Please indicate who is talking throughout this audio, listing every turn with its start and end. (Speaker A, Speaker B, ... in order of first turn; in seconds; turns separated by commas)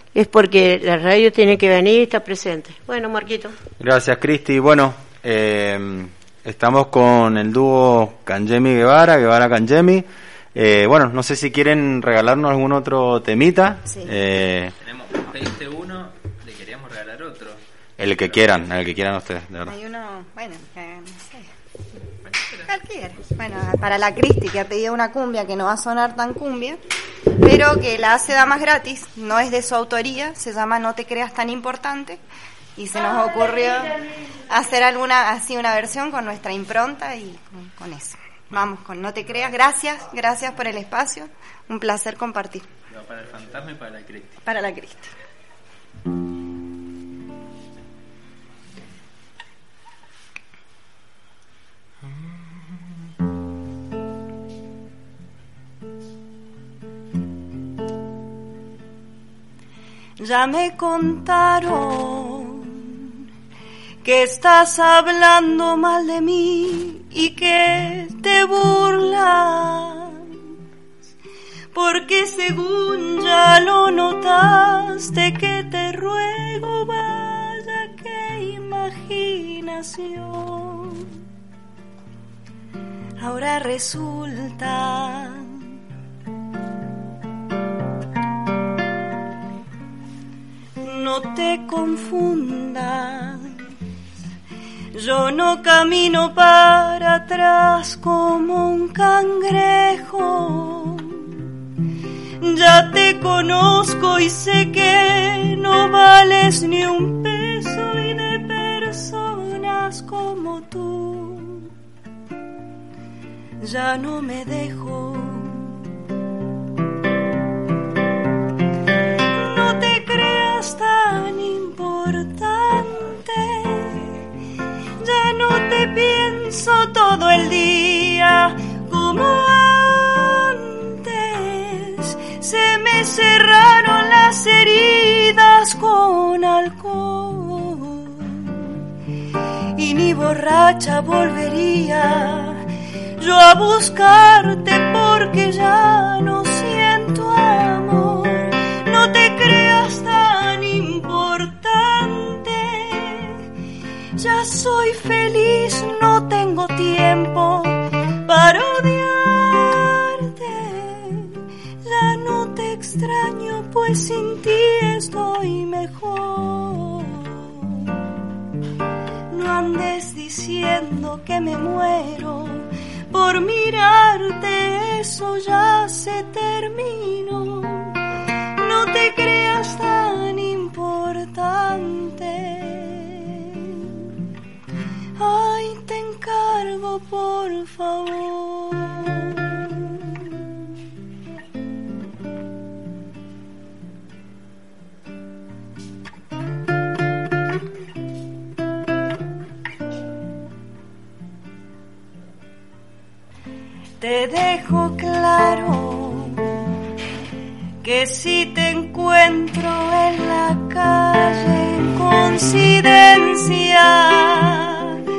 Speaker A: 0.1-3.5, Speaker B: 3.8-14.7, Speaker C: 13.9-14.1, Speaker D: 14.8-17.6, Speaker B: 18.0-19.7, Speaker C: 19.7-21.5, Speaker C: 22.6-26.8, Speaker C: 27.4-32.2, Speaker C: 32.8-42.6, Speaker D: 42.9-44.4, Speaker C: 44.5-45.1, Speaker E: 60.2-63.1, Speaker E: 64.0-70.2, Speaker E: 71.7-81.1, Speaker E: 83.2-85.6, Speaker E: 90.8-93.5, Speaker E: 94.9-101.4, Speaker E: 102.4-111.7, Speaker E: 113.6-115.8, Speaker E: 119.3-124.0, Speaker E: 125.0-138.7, Speaker E: 139.7-142.6, Speaker E: 143.2-153.4, Speaker E: 154.2-167.8, Speaker E: 169.3-178.0, Speaker E: 178.6-184.0, Speaker E: 185.2-190.2, Speaker E: 204.0-206.5, Speaker E: 207.8-215.0